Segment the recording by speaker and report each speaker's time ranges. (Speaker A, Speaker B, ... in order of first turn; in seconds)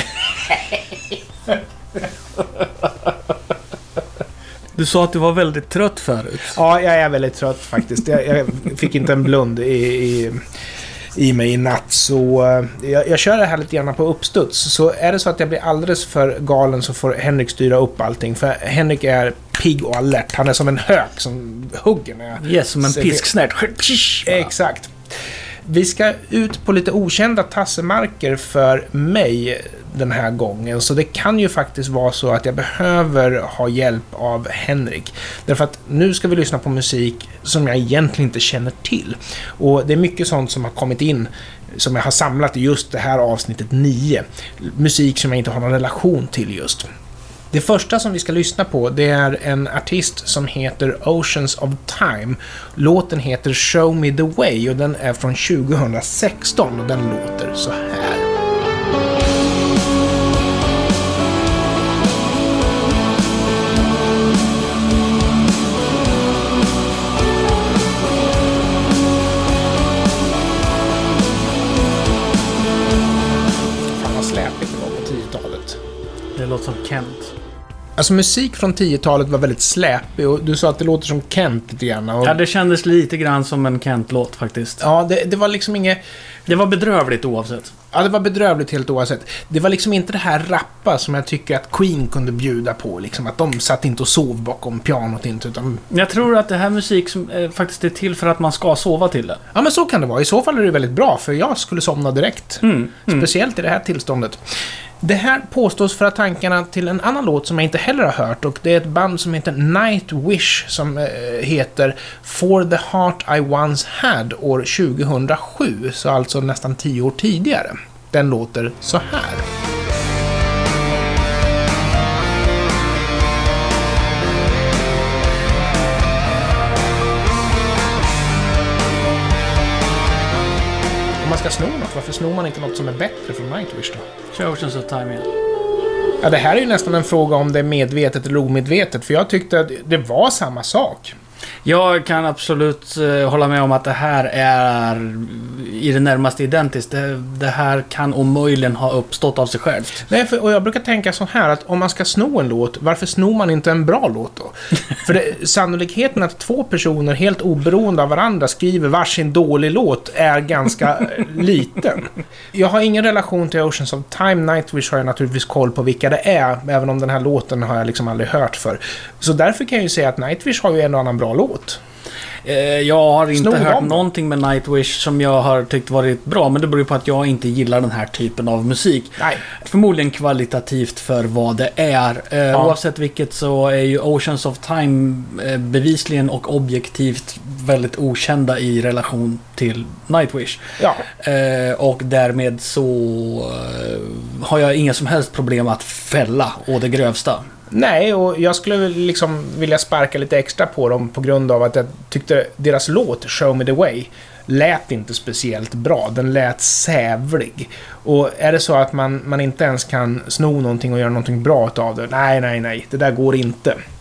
Speaker A: 4.8-6.6, 22.4-24.5, 76.3-77.3, 82.2-84.8, 86.5-87.7, 95.9-99.4, 102.6-103.3, 134.3-135.3, 141.6-150.1, 172.4-190.6, 191.1-197.4
Speaker B: 6.5-10.4, 11.2-23.2, 24.2-24.9, 25.7-46.8, 47.5-58.2, 73.9-75.8, 78.0-82.4, 84.8-86.0, 87.9-95.8, 99.5-104.4, 105.0-119.5, 131.2-134.1, 136.2-141.1, 150.1-171.8, 173.3-174.0, 190.8-191.0, 197.7-213.8